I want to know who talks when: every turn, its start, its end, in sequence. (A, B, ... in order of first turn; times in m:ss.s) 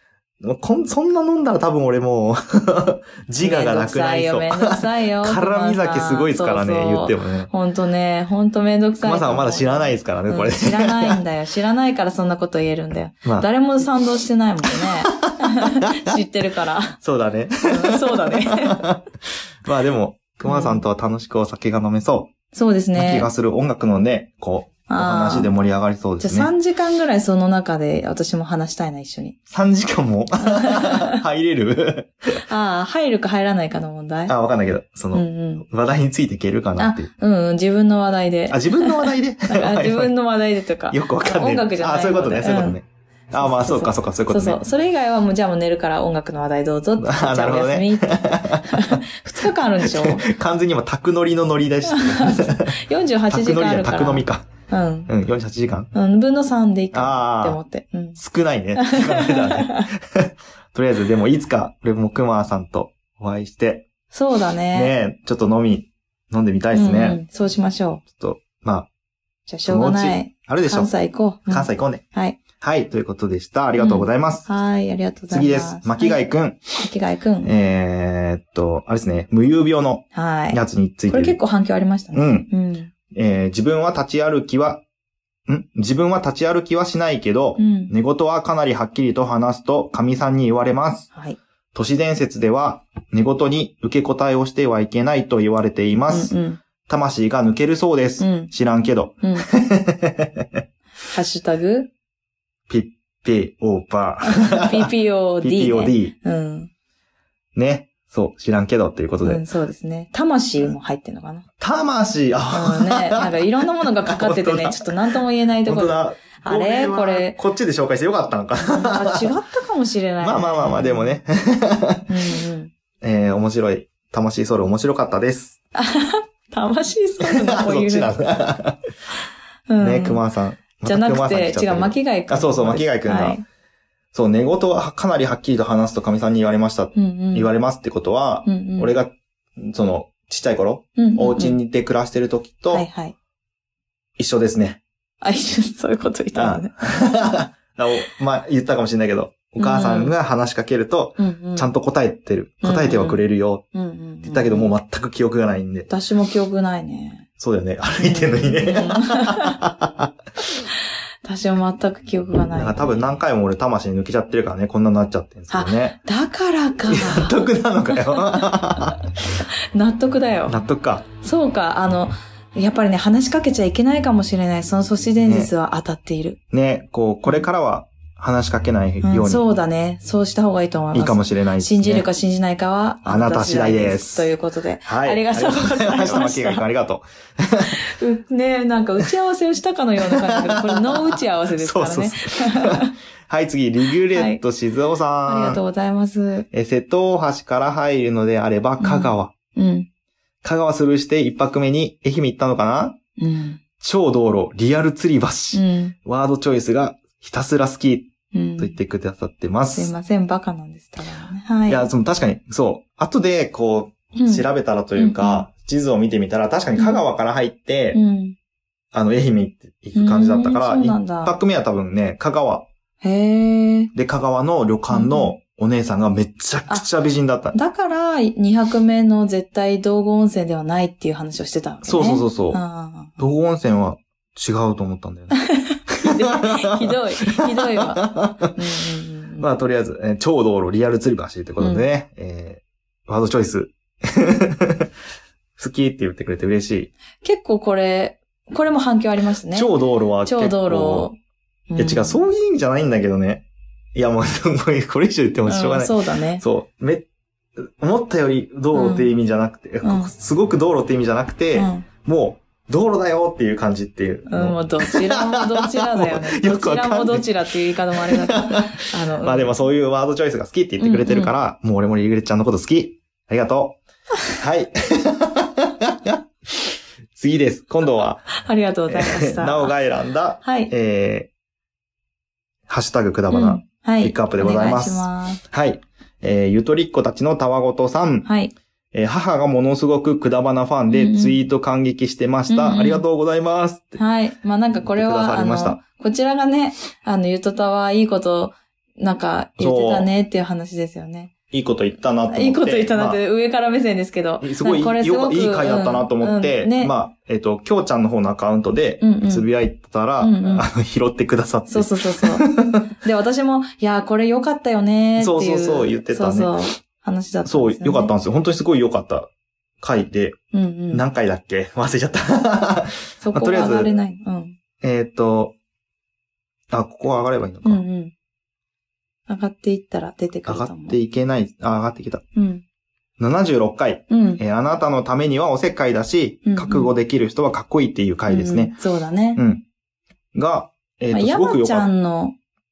0:00.4-0:07.5 A
0:03.4-0:17.0 B
0:09.0-0:11.2 A
0:14.8-0:16.2 A
0:17.0-0:22.3 A
0:17.6-0:18.8 B
0:20.4-0:20.8 B
0:22.5-0:23.3 B
0:22.9-0:26.5 A
0:24.9-0:25.5 B
0:26.2-0:29.4 B
0:29.5-0:32.4 A
0:30.4-0:31.2 B
0:32.4-0:34.3 B
0:34.3-0:37.1 A
0:35.1-0:35.6 B
0:36.8-0:42.8 B
0:38.5-0:40.1 A
0:40.9-0:44.6 A
0:43.3-0:50.2 B
0:47.0-0:49.0 A
0:49.8-0:52.8 A
0:51.9-0:55.1 B
0:53.3-0:54.5 A
0:55.1-0:55.9 A
0:55.9-0:58.2 B
0:56.9-0:57.6 A
0:58.2-1:03.9 A
0:58.8-0:59.9 B
1:04.1-1:04.9 B
1:04.7-1:07.2 A
1:06.7-1:08.0 B
1:08.1-1:08.9 A
1:09.5-1:12.4 B
1:09.6-1:10.9 A
1:11.5-1:12.0 A
1:12.6-1:14.5 A
1:13.8-1:16.2 B
1:15.3-1:16.6 A
1:16.8-1:17.5 B
1:17.4-1:21.4 A
1:20.1-1:22.9 B
1:22.1-1:22.5 A
1:23.1-1:24.8 A
1:25.5-1:31.1 A
1:27.6-1:27.9 B
1:31.7-1:36.3 A
1:36.1-1:36.6 B
1:36.8-1:40.6 A
1:38.2-1:38.5 B
1:39.2-1:39.5 B
1:41.1-1:41.9 B
1:42.7-1:44.9 A
1:44.2-1:46.7 B
1:45.4-1:46.1 A
1:47.5-1:49.4 A
1:49.2-1:51.4 B
1:51.6-1:59.3 A
1:52.5-1:57.4 B
1:58.7-2:01.1 B
2:00.2-2:02.1 A
2:02.1-2:02.7 B
2:03.0-2:05.6 A
2:05.7-2:08.1 B
2:07.2-2:08.8 A
2:09.7-2:10.2 B
2:09.8-2:13.4 A
2:10.8-2:13.4 B
2:14.1-2:22.8 A
2:16.9-2:17.5 B
2:18.4-2:18.9 B
2:21.0-2:21.6 B
2:22.7-2:23.1 B
2:24.2-2:24.8 A
2:25.2-2:26.7 B
2:26.4-2:33.6 A
2:29.6-2:30.1 B
2:31.2-2:31.7 B
2:32.6-2:34.7 B
2:34.2-2:35.9 A
2:35.9-2:37.3 B
2:37.4-2:40.1 A
2:38.0-2:39.6 B
2:41.2-2:43.2 B
2:42.5-2:46.0 A
2:45.5-2:49.0 B
2:46.9-2:49.1 A
2:49.7-2:50.6 B
2:50.5-2:51.0 A
2:51.2-2:56.4 B
2:55.2-2:55.5 A
2:56.5-2:59.5 A
2:59.0-3:06.6 B
3:00.9-3:02.0 A
3:03.0-3:04.3 A
3:04.8-3:07.8 A
3:07.7-3:12.9 B
3:10.0-3:15.6 A
3:14.1-3:14.4 B
3:15.2-3:16.5 B
3:16.5-3:19.3 A
3:18.8-3:19.9 B
3:20.4-3:23.0 A
3:23.2-3:23.6 B
3:23.8-3:29.9 A
3:25.5-3:25.9 B
3:28.3-3:28.8 B
3:29.7-3:31.8 B
3:31.7-3:38.0 A
3:34.2-3:34.4 B
3:35.0-3:35.5 B
3:36.8-3:37.0 B
3:37.9-3:38.4 B
3:38.9-3:42.7 A
3:39.9-3:41.3 B
3:43.0-3:43.9 B
3:43.9-3:47.5 A
3:44.9-3:45.4 B
3:47.5-3:53.2 B
3:51.8-3:52.6 A
3:53.2-3:58.5 A
3:55.4-3:59.5 B
3:59.4-4:04.9 A
4:01.6-4:01.8 B
4:05.6-4:06.9 A
4:07.2-4:09.7 B
4:09.5-4:11.1 A
4:10.2-4:11.2 B
4:11.7-4:12.2 B
4:11.8-4:33.8 A
4:15.4-4:16.4 B
4:18.7-4:19.1 B
4:19.8-4:20.1 B
4:21.5-4:21.9 B
4:24.3-4:29.6 B
4:30.8-4:31.3 B
4:34.4-4:38.4 A
4:38.3-4:39.7 B
4:38.9-4:41.3 A
4:40.4-4:40.7 B
4:42.7-4:48.3 A
4:43.3-4:45.4 B
4:48.2-4:48.5 B
4:48.9-4:54.0 A
4:50.9-4:51.4 B
4:52.5-4:53.0 B
4:54.0-5:01.3 B
4:54.8-4:55.8 A
4:59.6-5:00.1 A
5:01.5-5:03.2 A
5:02.3-5:06.9 B
5:04.4-5:12.8 A
5:09.0-5:09.5 B
5:10.2-5:10.7 B
5:11.7-5:12.5 B
5:13.0-5:18.1 B
5:15.2-5:16.5 A
5:17.4-5:20.4 A
5:20.5-5:21.0 B
5:20.9-5:23.9 A
5:23.2-5:24.6 B
5:24.8-5:25.6 A
5:26.7-5:27.8 A
5:27.6-5:28.1 B
5:29.3-5:31.0 B
5:30.5-5:32.2 A
5:32.4-5:32.6 B
5:33.2-5:38.8 A
5:34.1-5:34.4 B
5:36.4-5:36.9 B
5:38.3-5:39.4 B
5:39.4-5:39.6 A
5:40.3-5:41.9 A
5:41.1-5:42.4 B